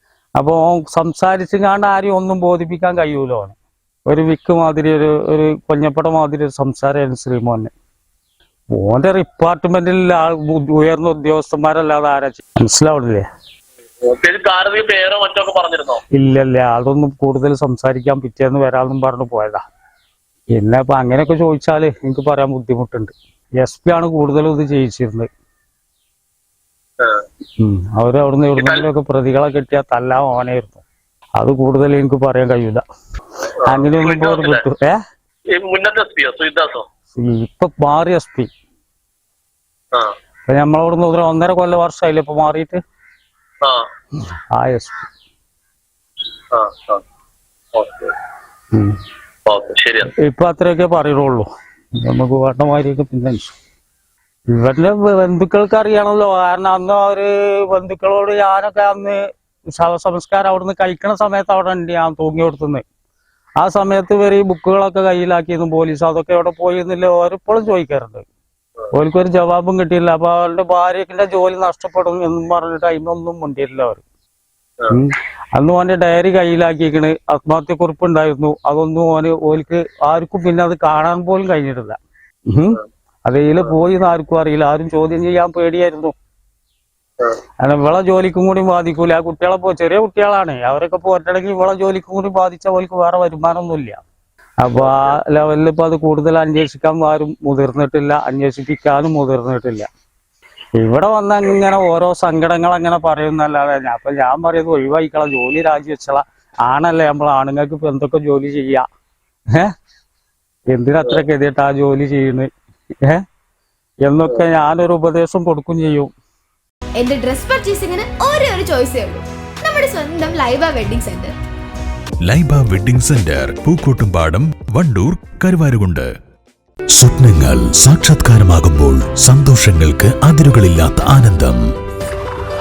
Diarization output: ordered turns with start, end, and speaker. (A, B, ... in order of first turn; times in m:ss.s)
0:00.4-0:03.6 A
0:04.1-0:07.7 A
0:08.7-0:13.2 A
0:14.0-0:16.0 B
0:16.1-0:19.6 A
0:20.5-0:25.3 A
0:27.6-0:30.8 A
0:28.6-0:28.8 B
0:31.4-0:32.8 A
0:33.6-0:34.6 B
0:33.7-0:35.0 A
0:35.5-0:36.8 B
0:37.1-0:38.5 A
0:40.5-0:42.8 A
0:44.5-0:45.1 A
0:46.5-0:47.0 B
0:47.7-0:48.1 B
0:48.7-0:49.0 A
0:49.5-0:50.1 B
0:50.2-0:51.5 A
0:52.0-0:53.5 A
0:54.5-1:02.8 A
1:03.6-1:08.2 A
1:08.9-1:14.0 A
1:14.9-1:22.0 A
1:22.5-1:26.1 A
1:27.6-1:34.0 A
1:34.6-1:39.8 A
1:34.8-1:35.1 B
1:40.8-1:48.8 A
1:50.7-1:52.5 A
1:54.0-1:56.1 A
1:57.0-2:01.3 C
2:02.2-2:06.1 D
2:06.9-2:11.6 D